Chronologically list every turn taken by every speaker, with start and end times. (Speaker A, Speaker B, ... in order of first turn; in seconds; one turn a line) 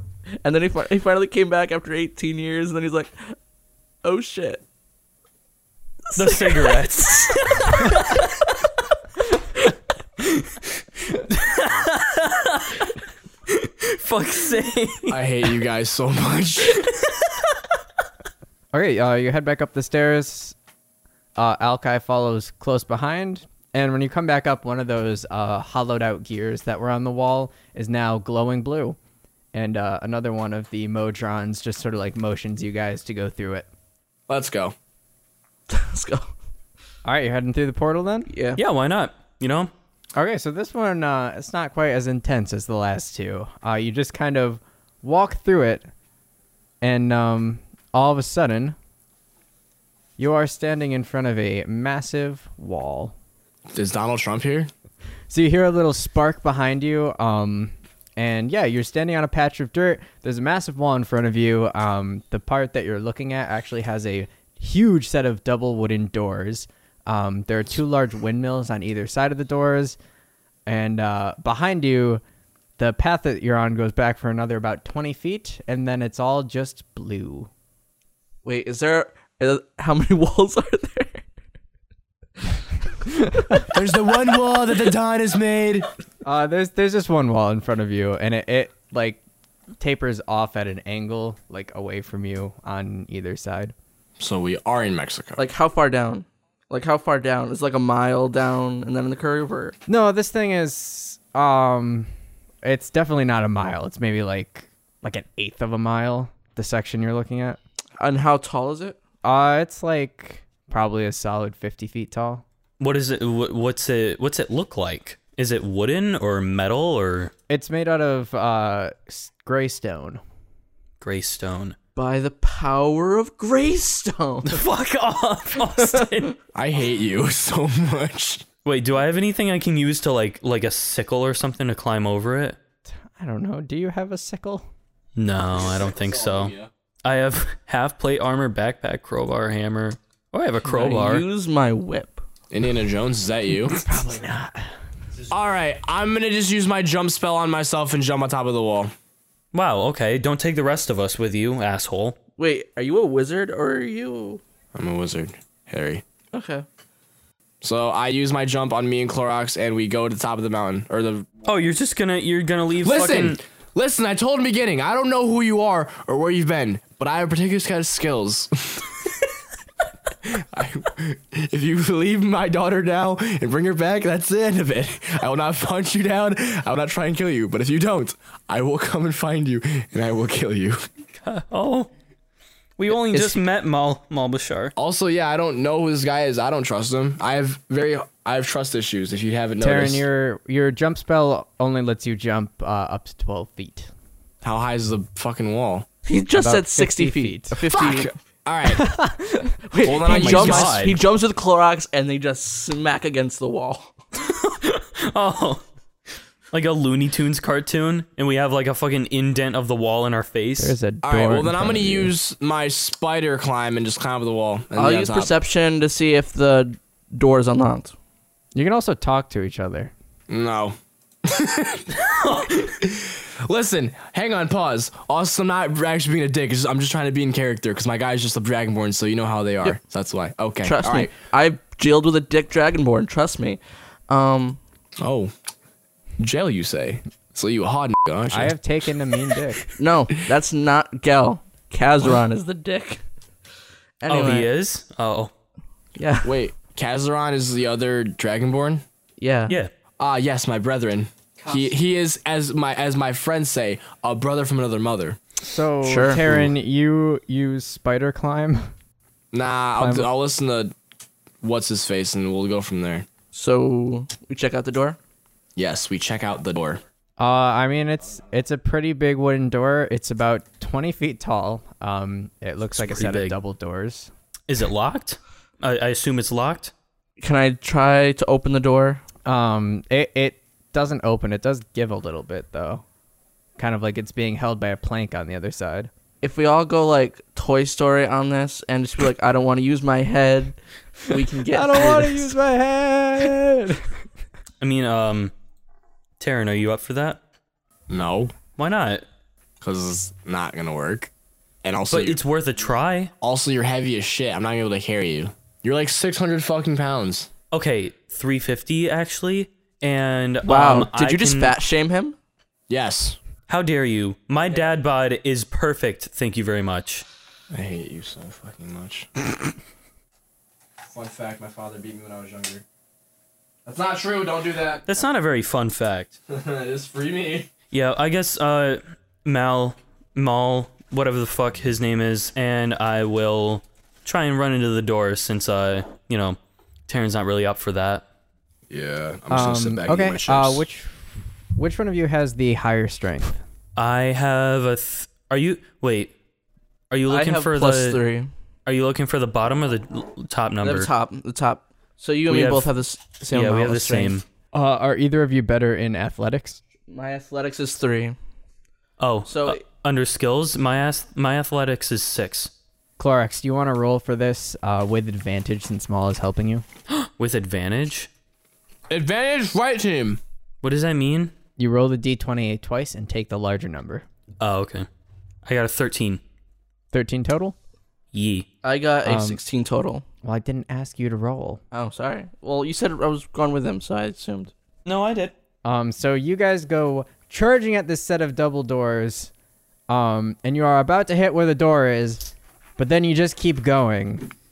Speaker A: 0.4-3.4
Speaker A: 4.0-4.6
Speaker B: 6.2-8.5
Speaker A: 6.2-7.3
Speaker B: 10.2-10.5
Speaker B: 11.1-12.9
Speaker B: 13.5-15.2
Speaker C: 15.1-16.8
Speaker B: 16.8-17.3
Speaker D: 18.7-20.6
Speaker D: 21.4-29.0
Speaker D: 29.5-33.7
Speaker C: 34.3-34.8
Speaker A: 35.7-36.3
Speaker D: 37.0-38.3
Speaker A: 38.3-38.6
Speaker B: 38.6-39.7
Speaker D: 40.1-45.9
Speaker D: 46.8-48.8
Speaker D: 50.2-53.1
Speaker C: 53.7-54.7
Speaker D: 55.3-70.0
Speaker D: 70.7-72.2
Speaker D: 72.8-77.5
Speaker A: 78.4-81.2
Speaker C: 83.7-85.9
Speaker D: 86.2-89.2
Speaker D: 89.8-93.7
Speaker C: 94.2-95.4
Speaker A: 95.4-99.8
Speaker D: 99.9-102.1
Speaker D: 102.6-107.6
Speaker A: 108.0-109.0
Speaker D: 109.2-112.4
Speaker B: 112.8-117.3
Speaker D: 117.5-120.2
Speaker B: 121.0-121.8
Speaker A: 122.0-124.6
Speaker B: 124.5-126.4
Speaker A: 125.8-126.1
Speaker C: 126.5-128.4
Speaker B: 128.7-132.6
Speaker D: 133.2-134.7
Speaker B: 135.2-141.3
Speaker C: 136.1-136.7
Speaker A: 140.6-142.2
Speaker C: 142.5-143.8
Speaker D: 143.7-144.7
Speaker C: 145.3-148.9
Speaker B: 149.5-152.2
Speaker A: 152.4-154.4
Speaker C: 154.8-156.0
Speaker A: 156.3-156.7
Speaker C: 157.6-161.3
Speaker B: 161.4-163.4
Speaker C: 162.8-168.9
Speaker C: 170.3-180.8
Speaker B: 181.2-181.9
Speaker B: 182.8-184.7
Speaker C: 184.8-190.0
Speaker D: 189.6-193.9
Speaker C: 194.4-195.9
Speaker A: 196.1-198.1
Speaker D: 196.3-197.6
Speaker C: 197.7-198.9
Speaker D: 198.7-199.5
Speaker A: 199.7-203.9
Speaker C: 199.8-200.8
Speaker B: 200.1-201.0
Speaker B: 204.2-205.6
Speaker B: 206.5-210.8
Speaker D: 210.6-212.1
Speaker C: 211.0-215.3
Speaker A: 214.8-217.9
Speaker D: 218.5-219.9
Speaker C: 220.3-221.9
Speaker B: 221.9-222.8
Speaker C: 222.8-231.1
Speaker A: 230.6-234.6
Speaker C: 235.0-235.3
Speaker C: 236.2-238.6
Speaker D: 238.3-239.6
Speaker A: 239.8-243.0
Speaker A: 244.0-244.5
Speaker B: 244.1-245.3
Speaker A: 246.0-246.3
Speaker C: 246.2-248.8
Speaker A: 249.2-249.6
Speaker C: 250.0-255.2
Speaker D: 255.4-258.7
Speaker A: 255.8-256.2
Speaker C: 259.3-260.7
Speaker D: 259.8-260.1
Speaker C: 261.4-263.1
Speaker A: 263.3-265.0
Speaker C: 265.6-266.8
Speaker D: 267.2-274.1
Speaker B: 272.8-273.4
Speaker B: 274.5-276.7
Speaker A: 277.2-279.0
Speaker D: 279.2-282.8
Speaker D: 283.6-285.9
Speaker A: 286.2-292.3
Speaker D: 291.5-293.8
Speaker B: 294.6-295.3
Speaker B: 296.2-297.2
Speaker C: 297.9-298.3
Speaker B: 298.6-299.0
Speaker C: 299.6-301.1
Speaker C: 301.6-302.2
Speaker B: 301.9-303.1
Speaker C: 303.2-307.3
Speaker B: 307.5-311.6
Speaker A: 310.4-312.2
Speaker C: 312.7-313.2
Speaker B: 313.5-317.1
Speaker C: 317.5-319.1
Speaker C: 320.9-322.6
Speaker C: 323.7-324.9
Speaker B: 324.9-326.2
Speaker C: 326.3-327.5
Speaker B: 327.7-336.4
Speaker B: 336.9-338.0
Speaker C: 338.7-340.6
Speaker D: 339.3-343.4
Speaker B: 343.8-346.1
Speaker B: 346.9-348.0
Speaker A: 347.1-348.3
Speaker B: 348.7-350.9
Speaker A: 350.6-354.2
Speaker B: 352.3-352.7
Speaker B: 353.3-354.2
Speaker D: 354.5-356.6
Speaker A: 356.9-358.2
Speaker B: 359.0-362.5
Speaker A: 359.3-359.6
Speaker D: 363.0-366.6
Speaker B: 366.9-368.1
Speaker C: 368.9-370.2
Speaker B: 370.6-371.3
Speaker D: 371.6-374.1
Speaker B: 374.4-374.9
Speaker B: 375.4-376.2
Speaker D: 376.9-377.6
Speaker B: 378.1-378.5
Speaker A: 378.6-380.1
Speaker D: 379.1-379.4
Speaker D: 380.2-381.6
Speaker A: 381.7-384.5
Speaker B: 384.9-385.3
Speaker D: 385.6-389.3
Speaker D: 389.9-394.3